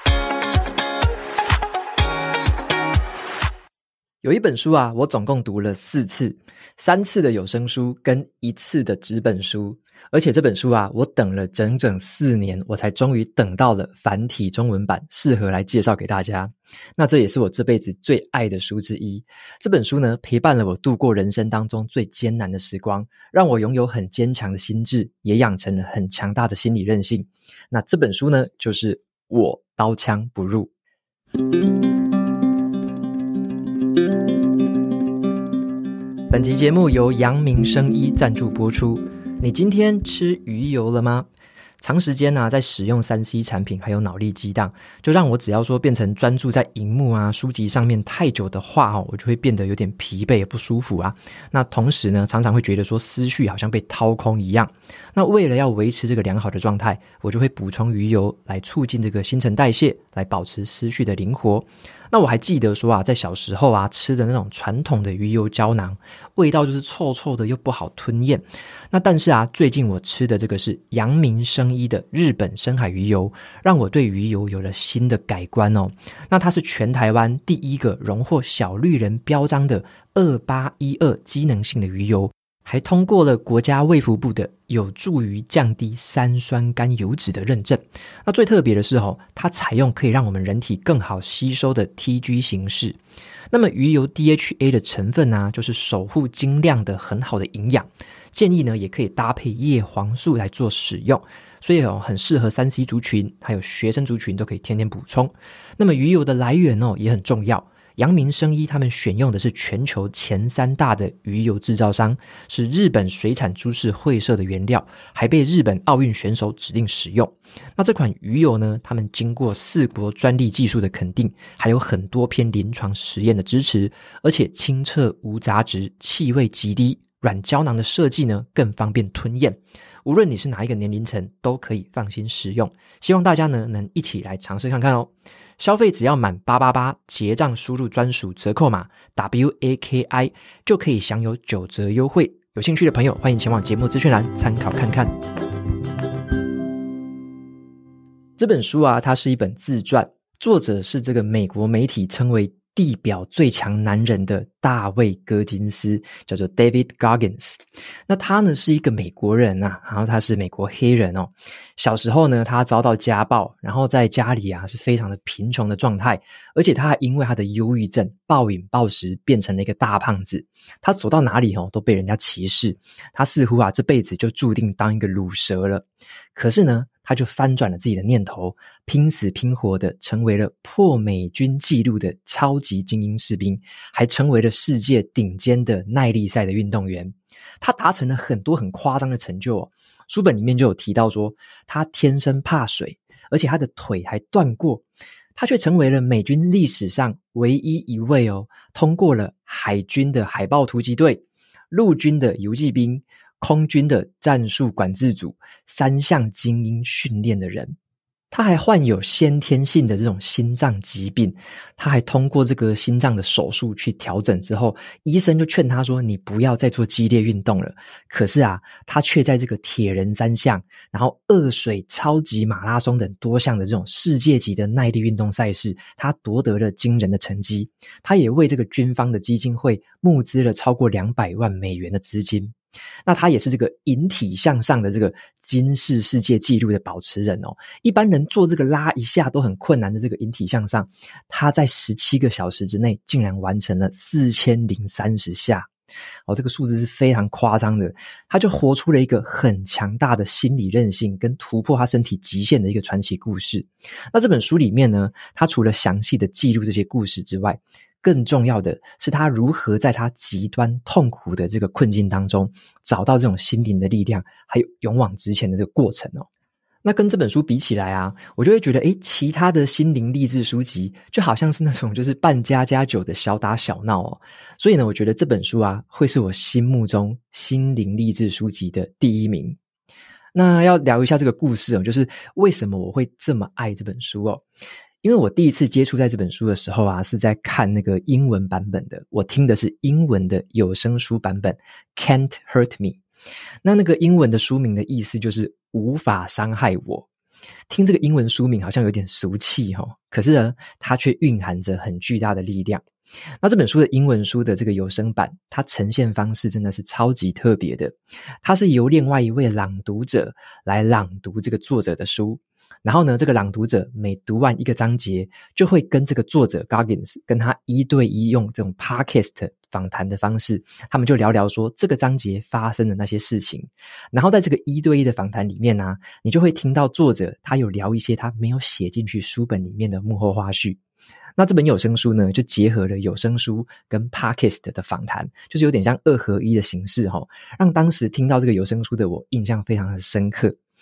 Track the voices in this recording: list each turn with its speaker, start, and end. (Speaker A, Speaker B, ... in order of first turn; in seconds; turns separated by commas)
Speaker A: 4.2-30.7, Speaker A: 36.3-41.3, Speaker A: 41.8-93.0, Speaker A: 93.5-145.1, Speaker A: 148.4-194.8, Speaker A: 195.3-207.8, Speaker A: 208.3-232.5, Speaker A: 233.1-245.7, Speaker A: 246.3-266.3, Speaker A: 266.8-279.6, Speaker A: 280.3-284.4, Speaker A: 285.0-293.0, Speaker A: 293.6-297.1, Speaker A: 297.7-302.8, Speaker A: 303.4-330.8, Speaker A: 331.4-340.6